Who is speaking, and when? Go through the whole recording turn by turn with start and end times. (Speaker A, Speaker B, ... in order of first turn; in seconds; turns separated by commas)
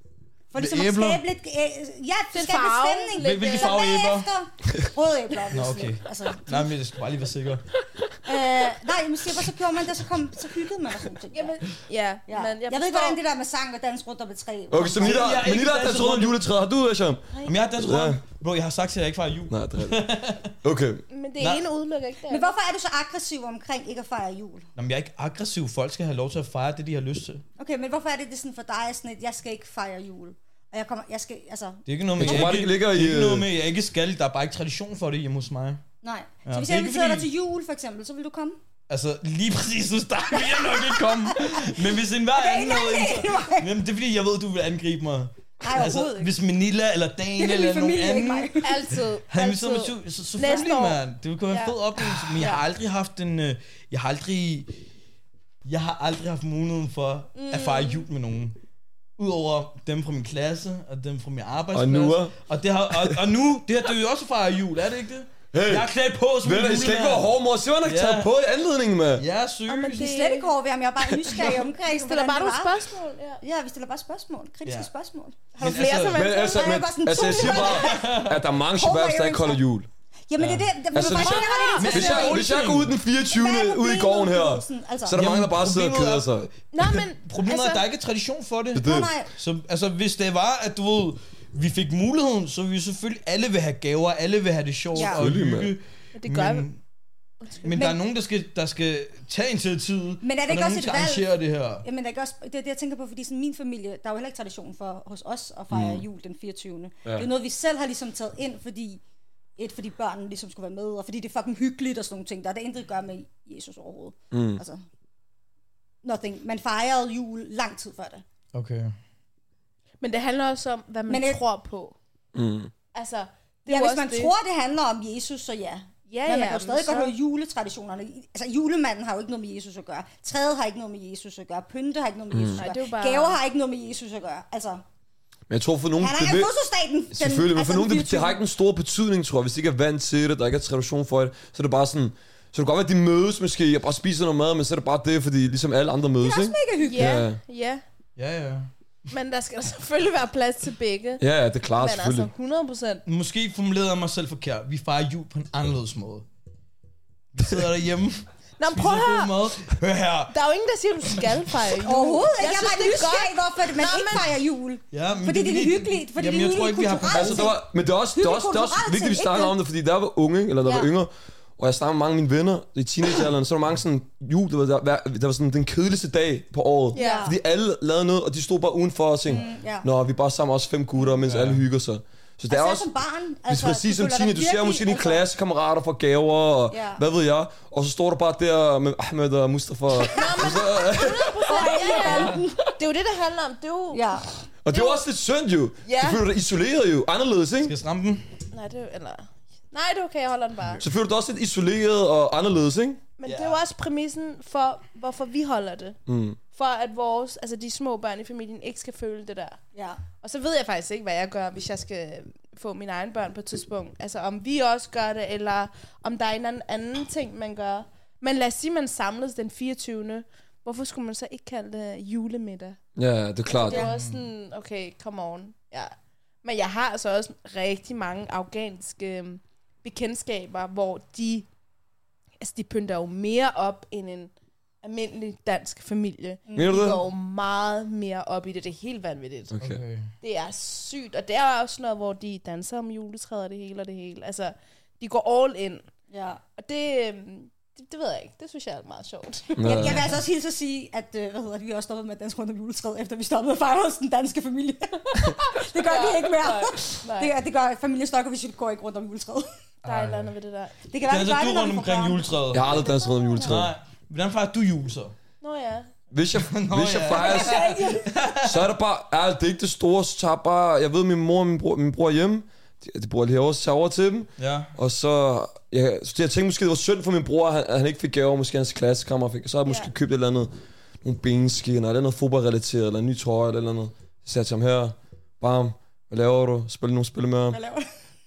Speaker A: 0.5-6.7, Speaker B: 0.6-1.2, Speaker C: 2.3-3.8, Speaker B: 3.2-4.3, Speaker B: 5.5-7.6, Speaker A: 8.2-11.5, Speaker C: 11.3-13.2, Speaker A: 12.3-15.4, Speaker D: 14.7-18.2, Speaker B: 14.9-16.4, Speaker C: 17.3-17.6, Speaker B: 17.4-20.5, Speaker D: 19.5-20.0, Speaker D: 20.6-21.0, Speaker C: 21.1-22.5, Speaker B: 21.4-21.6, Speaker A: 22.3-24.6, Speaker B: 24.8-27.4, Speaker A: 27.6-32.5, Speaker B: 31.9-35.8, Speaker D: 32.2-33.5, Speaker A: 36.0-38.6, Speaker B: 36.4-37.3, Speaker B: 38.9-48.6, Speaker A: 40.4-41.6, Speaker A: 42.3-43.7, Speaker A: 45.6-46.3, Speaker A: 47.4-48.8, Speaker C: 48.6-52.6, Speaker B: 49.3-54.7, Speaker B: 55.6-58.5, Speaker C: 57.3-58.0, Speaker B: 59.2-67.3, Speaker D: 61.7-62.3, Speaker D: 62.9-63.2, Speaker D: 65.5-65.9, Speaker D: 66.4-69.2, Speaker B: 67.8-68.3, Speaker B: 69.2-70.0, Speaker A: 69.7-72.8, Speaker C: 69.7-70.5, Speaker B: 71.2-71.6, Speaker C: 71.5-73.4, Speaker A: 73.4-79.6, Speaker B: 74.6-74.9, Speaker C: 75.6-76.8, Speaker B: 75.6-76.2, Speaker D: 76.1-79.9, Speaker B: 77.2-78.4, Speaker A: 80.3-82.5, Speaker B: 80.4-80.7, Speaker D: 80.9-86.5, Speaker C: 81.1-82.3, Speaker B: 81.8-82.9, Speaker A: 83.3-85.2, Speaker B: 85.1-96.8, Speaker C: 86.7-87.8, Speaker D: 88.7-89.1, Speaker A: 88.8-89.3, Speaker A: 94.9-95.2, Speaker D: 95.0-95.7, Speaker C: 96.2-96.7, Speaker C: 97.4-97.9, Speaker B: 97.6-101.8, Speaker A: 100.2-101.3, Speaker A: 101.8-109.0, Speaker D: 105.7-106.0, Speaker A: 109.6-114.8, Speaker D: 114.3-114.6, Speaker A: 116.0-118.2, Speaker B: 118.5-118.9, Speaker C: 120.0-122.0, Speaker A: 121.1-121.4, Speaker D: 122.3-122.7, Speaker C: 122.9-124.3, Speaker A: 123.7-134.8, Speaker C: 126.1-127.1, Speaker D: 132.3-132.6, Speaker C: 132.6-133.4, Speaker D: 135.5-136.5, Speaker A: 136.0-138.4, Speaker D: 137.1-147.4, Speaker A: 146.2-147.2, Speaker C: 146.8-147.8, Speaker B: 148.2-148.7, Speaker C: 149.1-151.2, Speaker D: 151.2-152.3, Speaker C: 151.8-153.0, Speaker B: 153.1-156.2, Speaker B: 157.3-160.3, Speaker C: 158.6-159.3, Speaker C: 160.3-164.3, Speaker A: 161.8-167.6, Speaker B: 164.9-167.5, Speaker D: 167.1-182.9, Speaker A: 168.1-169.6, Speaker C: 176.9-177.3, Speaker A: 176.9-177.3, Speaker A: 179.3-179.9, Speaker B: 181.2-181.6, Speaker A: 182.5-185.2, Speaker D: 183.5-191.9, Speaker A: 186.7-187.0, Speaker C: 190.1-194.2, Speaker A: 190.2-190.6, Speaker A: 191.4-192.7, Speaker B: 192.0-192.4, Speaker A: 193.9-194.3, Speaker D: 194.6-197.7, Speaker C: 194.7-195.0, Speaker C: 195.8-196.2, Speaker B: 197.6-198.3, Speaker C: 198.5-200.8, Speaker D: 200.8-203.0, Speaker C: 203.2-205.9, Speaker B: 203.2-203.6, Speaker D: 206.1-206.4, Speaker C: 206.5-209.6, Speaker A: 209.7-210.0, Speaker C: 210.2-222.8, Speaker D: 222.9-223.9, Speaker C: 223.4-231.5, Speaker B: 223.8-224.2, Speaker C: 232.4-239.5, Speaker A: 236.5-236.9, Speaker D: 236.5-237.0, Speaker D: 239.5-239.8, Speaker B: 239.6-240.1, Speaker C: 240.2-245.8, Speaker A: 246.1-246.4, Speaker C: 246.6-249.9, Speaker D: 249.6-250.0, Speaker A: 249.6-259.5, Speaker C: 255.2-257.3, Speaker C: 259.8-260.7, Speaker B: 259.8-260.3, Speaker A: 260.9-263.5, Speaker B: 261.1-262.8, Speaker D: 262.5-263.7, Speaker B: 263.4-265.1, Speaker C: 265.4-265.9, Speaker D: 266.1-267.7, Speaker B: 266.4-268.6, Speaker A: 267.1-268.1, Speaker D: 268.4-287.6, Speaker B: 274.4-274.7, Speaker A: 287.5-287.9